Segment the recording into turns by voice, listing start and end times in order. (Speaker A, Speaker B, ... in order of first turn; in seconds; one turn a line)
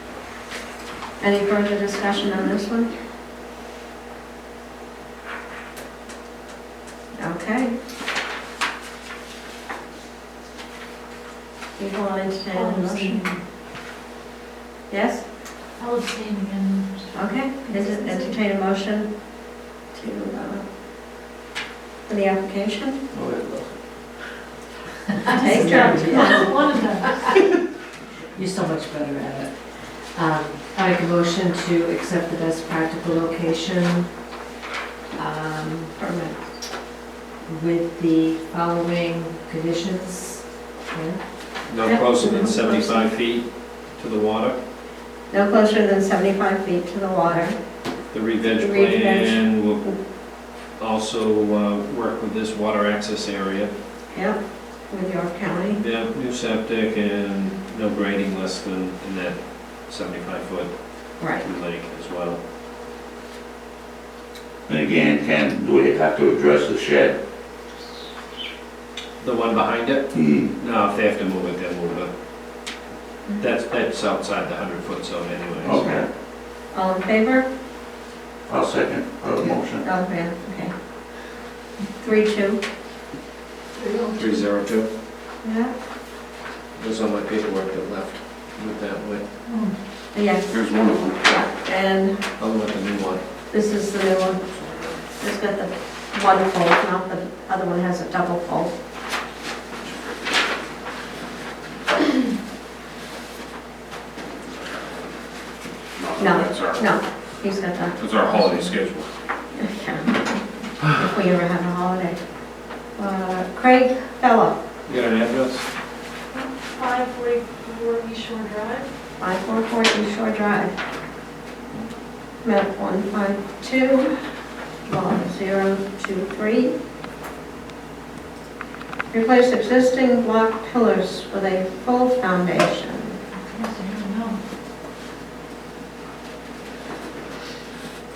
Speaker A: 1.2-2.9
Speaker A: 7.1-7.7
Speaker A: 11.8-13.2
Speaker B: 12.5-13.4
Speaker A: 14.9-15.3
Speaker B: 15.7-18.4
Speaker A: 17.1-19.3
Speaker A: 19.9-20.6
Speaker A: 22.1-23.0
Speaker C: 23.1-23.8
Speaker B: 25.2-27.3
Speaker A: 25.3-26.4
Speaker D: 25.4-26.4
Speaker D: 28.3-34.1
Speaker D: 35.1-35.9
Speaker A: 36.0-36.4
Speaker D: 37.5-41.2
Speaker E: 41.7-44.6
Speaker A: 41.8-43.1
Speaker A: 45.3-47.6
Speaker E: 48.1-50.0
Speaker A: 48.5-49.9
Speaker E: 50.5-53.7
Speaker A: 54.1-55.8
Speaker E: 55.8-62.4
Speaker A: 61.2-61.5
Speaker C: 64.7-67.2
Speaker E: 69.2-72.1
Speaker C: 70.1-70.5
Speaker E: 73.4-75.9
Speaker C: 75.6-76.1
Speaker A: 75.7-76.0
Speaker A: 76.7-77.5
Speaker C: 78.5-79.9
Speaker A: 79.8-80.7
Speaker A: 82.0-82.6
Speaker B: 83.8-84.4
Speaker E: 84.2-84.9
Speaker A: 85.4-85.7
Speaker E: 86.8-89.2
Speaker B: 89.5-89.7
Speaker A: 90.1-90.5
Speaker F: 90.5-91.2
Speaker A: 91.2-92.2
Speaker E: 92.4-93.2
Speaker A: 93.5-94.4
Speaker F: 94.5-95.0
Speaker A: 95.2-98.7
Speaker F: 105.9-106.9
Speaker A: 106.2-108.7
Speaker F: 108.0-109.0
Speaker E: 108.0-109.1
Speaker A: 109.5-112.2
Speaker A: 112.9-114.6
Speaker E: 114.9-115.7
Speaker B: 116.3-118.9
Speaker A: 119.2-120.7
Speaker A: 122.4-124.1
Speaker A: 124.9-126.7
Speaker A: 129.1-133.2
Speaker B: 133.3-134.4